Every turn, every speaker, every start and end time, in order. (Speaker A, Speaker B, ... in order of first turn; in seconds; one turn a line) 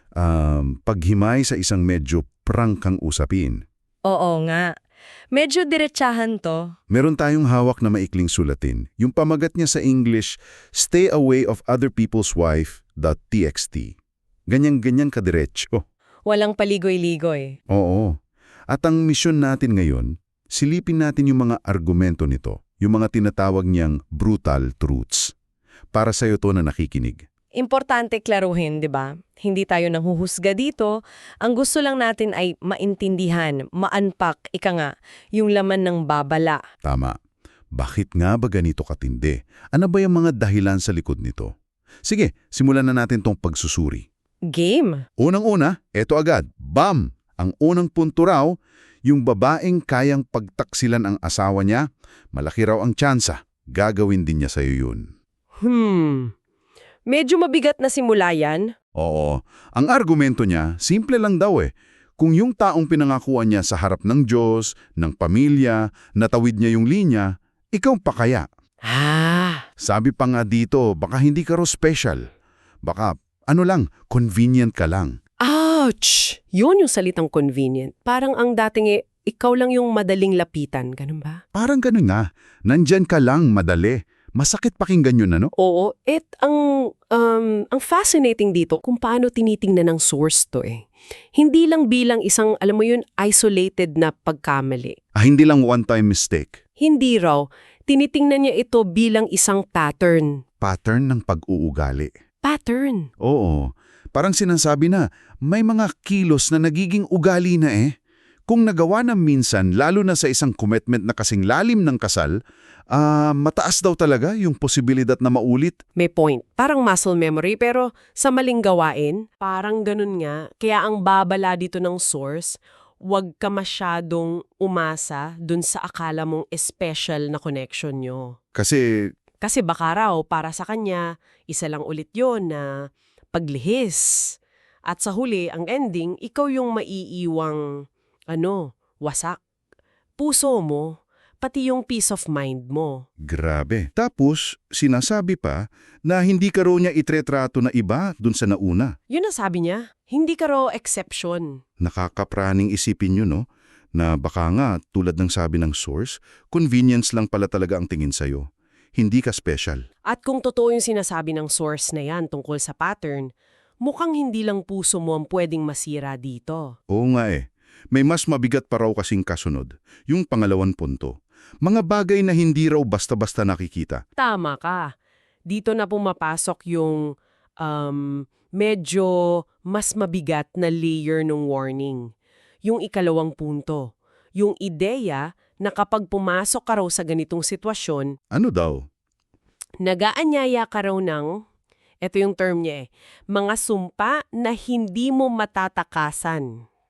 Speaker A: 0.2-3.6
Speaker B: 4.0-4.7
Speaker B: 5.3-6.7
Speaker A: 6.9-13.9
Speaker A: 14.5-15.8
Speaker C: 16.3-17.6
Speaker A: 17.7-18.1
Speaker A: 18.7-25.3
Speaker A: 25.9-27.2
Speaker B: 27.6-36.6
Speaker A: 36.8-37.1
Speaker A: 37.8-41.5
Speaker A: 42.0-44.0
Speaker B: 44.5-45.0
Speaker C: 44.5-44.9
Speaker A: 45.2-48.5
Speaker A: 49.1-55.0
Speaker C: 55.6-56.3
Speaker C: 57.1-58.7
Speaker A: 59.0-68.5
Speaker C: 68.8-69.6
Speaker A: 69.8-72.2
Speaker A: 72.8-75.2
Speaker C: 75.4-81.4
Speaker A: 81.5-85.5
Speaker C: 85.6-90.8
Speaker C: 91.3-95.0
Speaker A: 95.2-96.6
Speaker C: 96.8-100.4
Speaker A: 100.6-102.1
Speaker C: 102.4-103.1
Speaker A: 103.2-107.9
Speaker A: 108.5-112.3
Speaker A: 112.9-115.8
Speaker C: 116.0-128.3
Speaker A: 128.6-129.1
Speaker C: 129.4-132.7
Speaker C: 133.3-134.3
Speaker C: 134.9-139.4
Speaker C: 140.2-143.0
Speaker A: 143.2-148.9
Speaker C: 149.1-151.6
Speaker A: 151.8-153.4
Speaker A: 153.9-158.4
Speaker A: 159.0-159.8
Speaker C: 160.1-163.3
Speaker C: 163.8-166.7
Speaker A: 166.9-174.0
Speaker C: 174.2-174.8
Speaker C: 175.5-177.0
Speaker C: 177.6-182.0
Speaker C: 182.6-188.1
Speaker A: 188.3-188.8
Speaker C: 189.8-191.3
Speaker C: 192.0-196.6